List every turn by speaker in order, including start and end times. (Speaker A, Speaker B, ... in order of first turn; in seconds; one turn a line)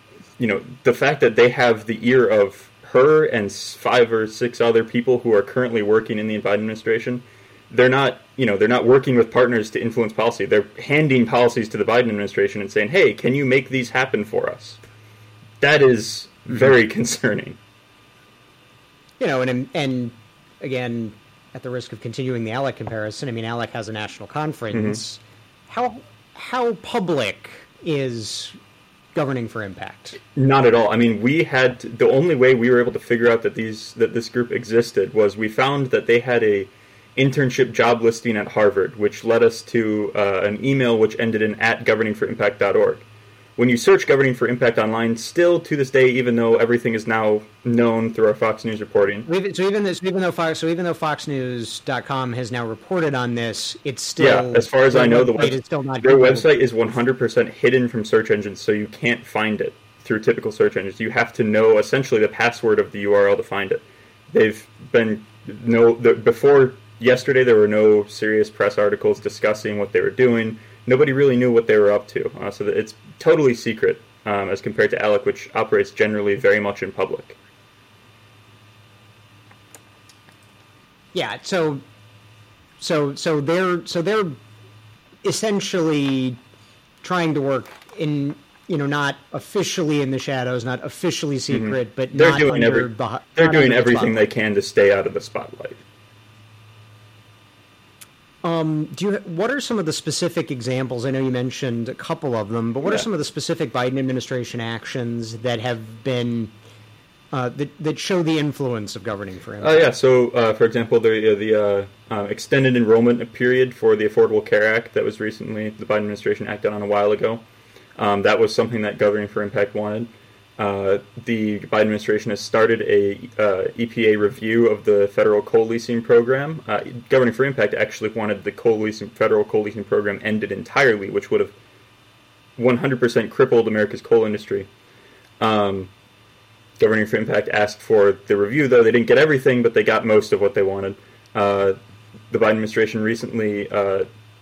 Speaker A: 0.4-14.8
Speaker A: 15.6-17.6
Speaker B: 19.2-28.6
Speaker A: 24.7-25.0
Speaker B: 29.1-30.2
Speaker A: 30.4-43.0
Speaker A: 43.6-49.3
Speaker B: 49.2-56.5
Speaker A: 54.2-77.4
Speaker B: 81.1-81.8
Speaker B: 82.8-84.4
Speaker B: 85.2-86.4
Speaker B: 87.0-94.1
Speaker A: 91.5-95.8
Speaker B: 98.4-106.5
Speaker B: 107.3-109.9
Speaker A: 109.6-117.4
Speaker A: 118.0-131.5
Speaker A: 132.6-134.7
Speaker A: 135.4-135.9
Speaker A: 136.8-141.8
Speaker A: 142.3-144.1